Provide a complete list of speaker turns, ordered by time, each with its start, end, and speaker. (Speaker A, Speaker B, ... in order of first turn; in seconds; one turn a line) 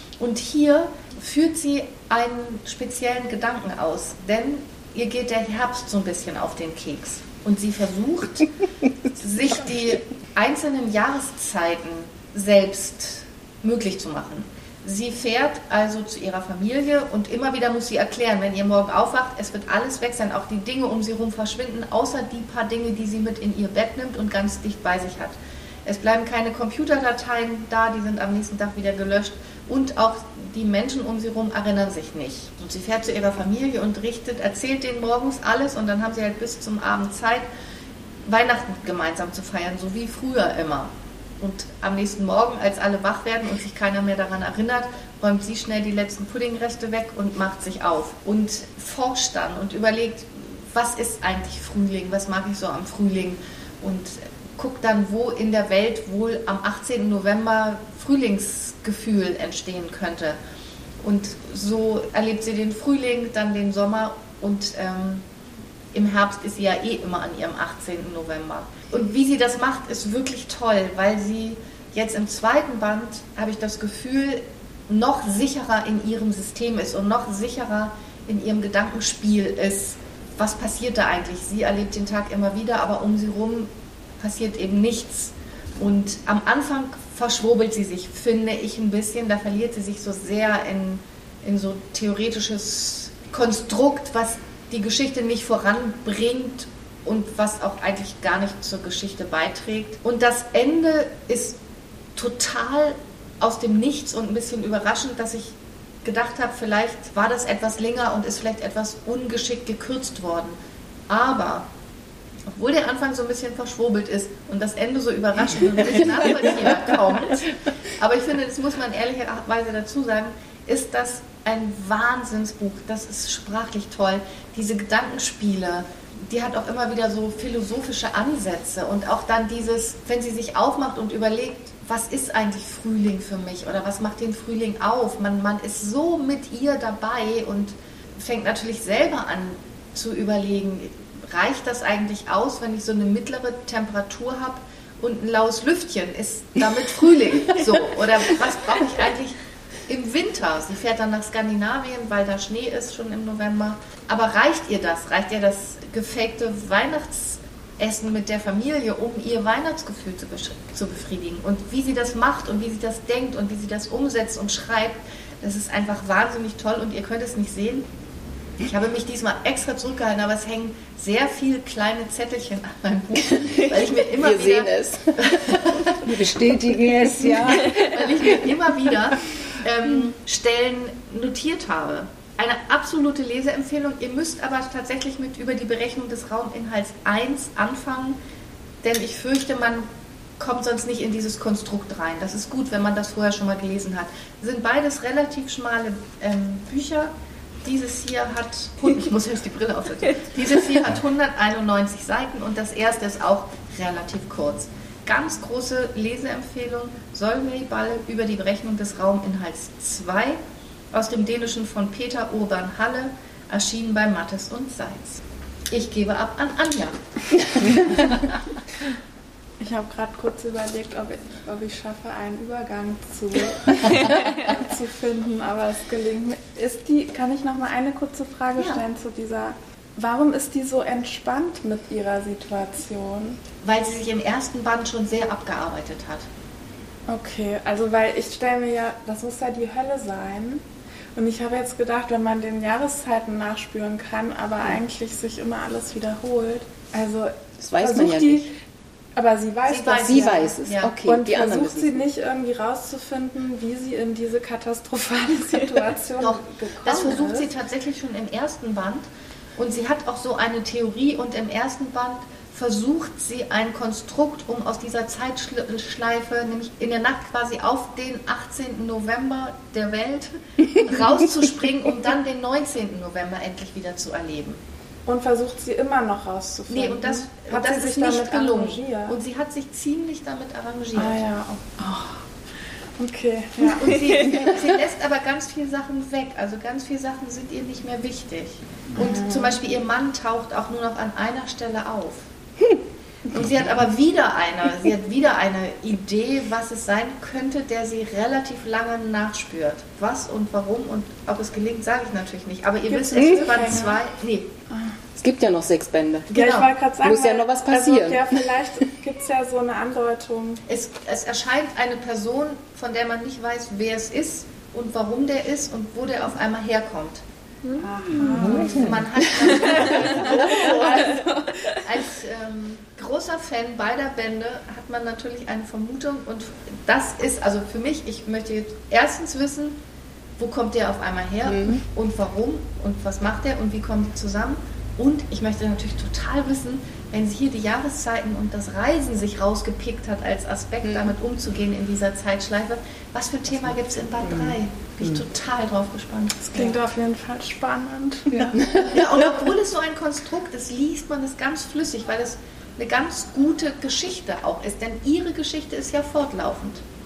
Speaker A: 0.2-8.5
Speaker A: 9.2-37.5
Speaker A: 38.2-60.4
Speaker A: 61.0-65.2
Speaker A: 65.9-101.6
Speaker A: 102.2-110.6
Speaker A: 111.1-111.7
Speaker A: 112.5-167.8
Speaker A: 168.6-176.0
Speaker B: 174.2-175.2
Speaker C: 176.0-178.0
Speaker A: 177.6-188.2
Speaker A: 188.8-189.9
Speaker A: 190.4-210.4
Speaker A: 210.9-218.2
Speaker D: 219.6-233.4
Speaker A: 233.6-236.3
Speaker D: 237.1-240.6
Speaker D: 241.2-248.5
Speaker B: 247.6-248.5
Speaker D: 249.2-250.5
Speaker A: 249.7-250.9
Speaker B: 250.0-252.1
Speaker D: 251.0-257.5
Speaker A: 256.2-274.6
Speaker D: 275.1-279.2
Speaker A: 276.7-281.2
Speaker D: 280.9-282.2
Speaker D: 283.0-284.3
Speaker A: 283.6-292.2
Speaker D: 289.0-289.6
Speaker A: 293.3-304.5
Speaker D: 302.9-304.0
Speaker B: 303.2-303.4
Speaker B: 305.2-308.3
Speaker D: 306.3-310.6
Speaker A: 306.4-306.6
Speaker A: 310.7-317.2
Speaker D: 317.8-321.2
Speaker A: 318.2-329.8
Speaker A: 330.4-346.7
Speaker B: 331.5-331.8
Speaker B: 340.8-341.1
Speaker B: 344.2-345.2
Speaker D: 346.4-348.6
Speaker B: 348.6-349.1
Speaker A: 348.7-356.8